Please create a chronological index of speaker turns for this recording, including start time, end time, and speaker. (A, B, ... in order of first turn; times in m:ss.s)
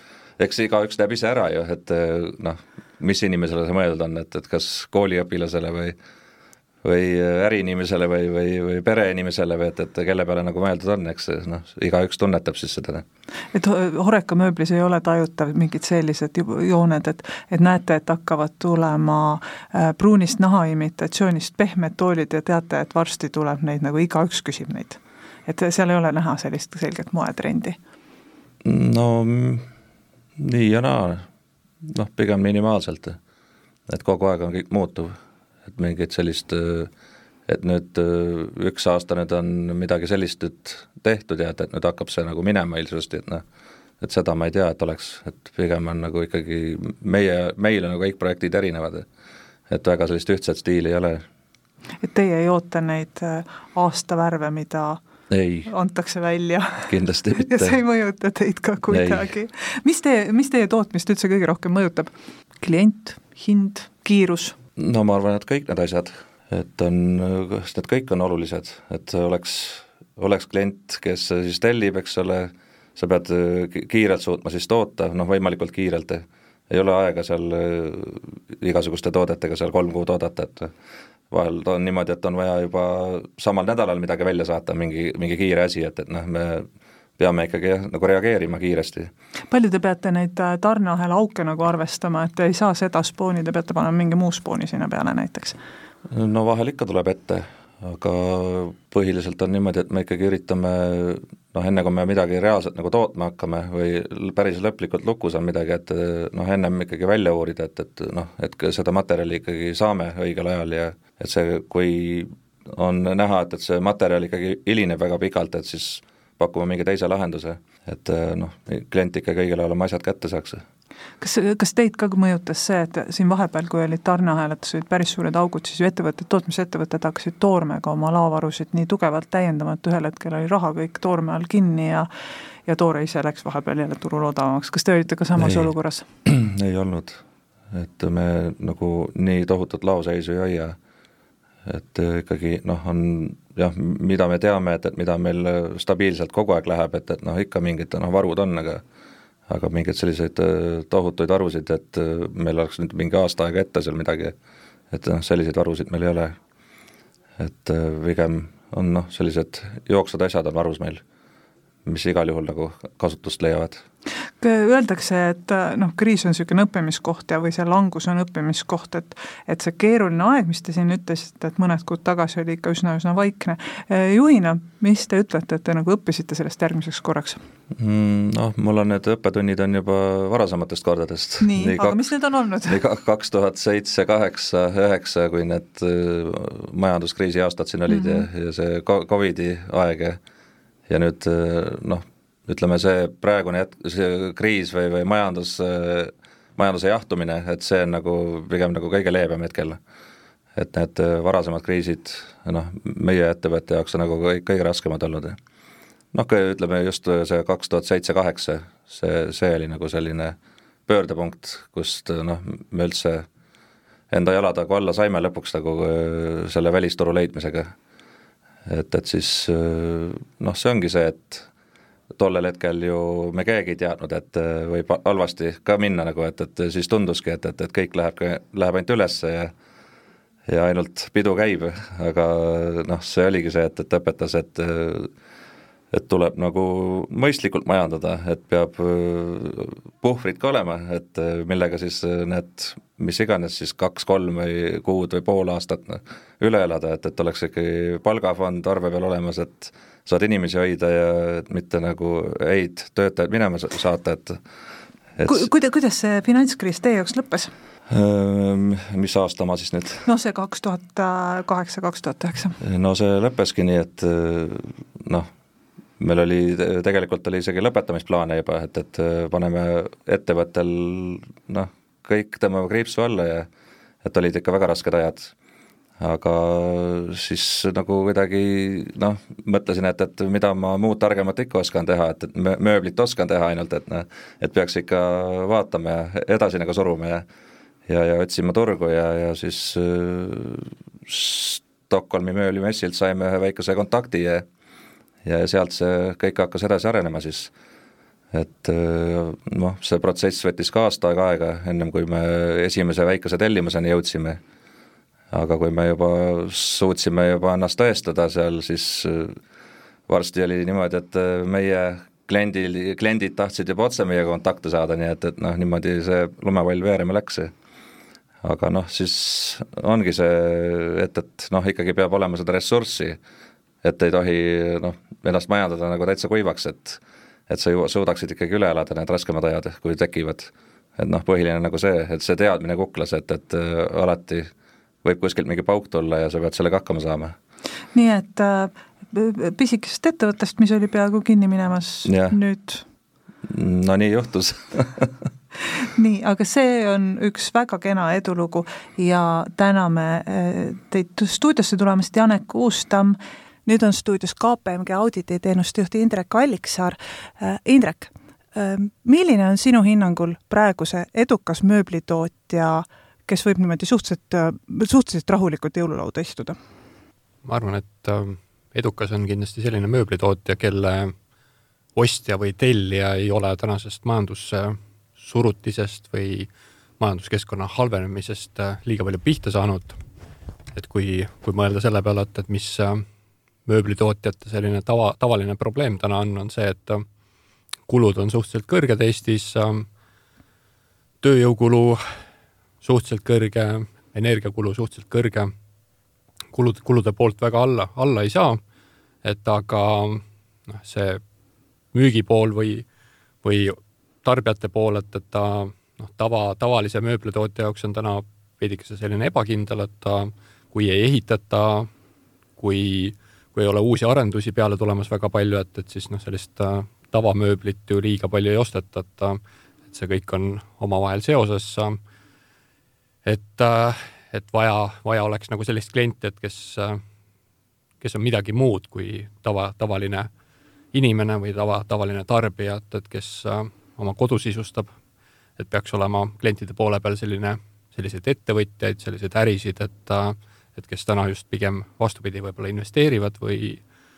0:00.4-0:06.0 A
0:06.8-0:13.0 A
0:13.5-0:27.8 B
0:28.6-0:29.6 A
0:30.4-0:31.2 A
0:31.9-0:33.2 A
0:33.9-0:35.1 A
0:35.7-0:36.9 A
0:37.5-0:43.4 A
0:44.0-0:49.1 A
0:49.7-0:51.2 A
0:52.0-0:55.0 B
0:55.3-0:55.7 A
0:55.7-1:04.6 B
0:56.9-0:57.8 A
0:58.9-0:59.3 A
1:04.8-1:20.7 A
1:21.3-1:26.7 A
1:27.2-1:29.1 A
1:29.5-1:35.6 B
1:36.1-2:00.6 A
2:01.2-2:12.1 B
2:12.7-2:16.0 B
2:15.4-2:15.7 A
2:16.2-2:20.8 A
2:21.6-2:28.8 A
2:29.5-2:34.4 A
2:34.9-2:36.4 A
2:37.4-2:41.0 A
2:41.8-2:43.8 A
2:44.4-2:57.4 B
2:57.8-3:02.0 A
3:01.4-3:02.8 B
3:02.7-3:10.2 A
3:07.9-3:08.3 B
3:10.9-3:19.8 A
3:20.6-3:25.4 A
3:26.1-3:30.4 A
3:30.9-3:33.3 A
3:34.1-3:37.7 A
3:38.7-3:41.5 A
3:42.1-3:49.5 A
3:50.5-3:55.1 A
3:55.9-4:14.4 A
4:15.2-4:15.5 A
4:15.2-4:17.5 B
4:17.9-4:20.0 A
4:20.0-4:22.6 B
4:22.6-4:25.3 A
4:26.0-4:33.5 A
4:34.0-4:35.3 A
4:36.0-4:47.2 A
4:47.9-4:54.5 A
4:55.2-4:57.5 A
4:58.3-5:04.4 A
5:05.3-5:09.4 A
5:10.1-5:17.5 A
5:18.4-5:23.2 A
5:23.8-5:34.5 A
5:35.0-5:37.4 A
5:37.9-5:42.8 B
5:42.1-5:42.4 A
5:43.5-5:45.1 A
5:45.8-6:06.6 B
6:07.4-6:11.2 C
6:12.0-6:20.0 C
6:20.7-6:23.1 C
6:23.7-6:27.0 C
6:27.9-6:29.9 C
6:31.2-6:32.0 C
6:32.8-6:35.5 C
6:36.5-6:38.6 C
6:39.2-6:41.2 C
6:41.9-6:42.9 C
6:43.4-6:51.9 C
6:52.6-7:02.0 C
7:03.2-7:07.0 C
7:08.0-7:10.3 C
7:10.9-7:14.9 C
7:15.6-7:23.8 C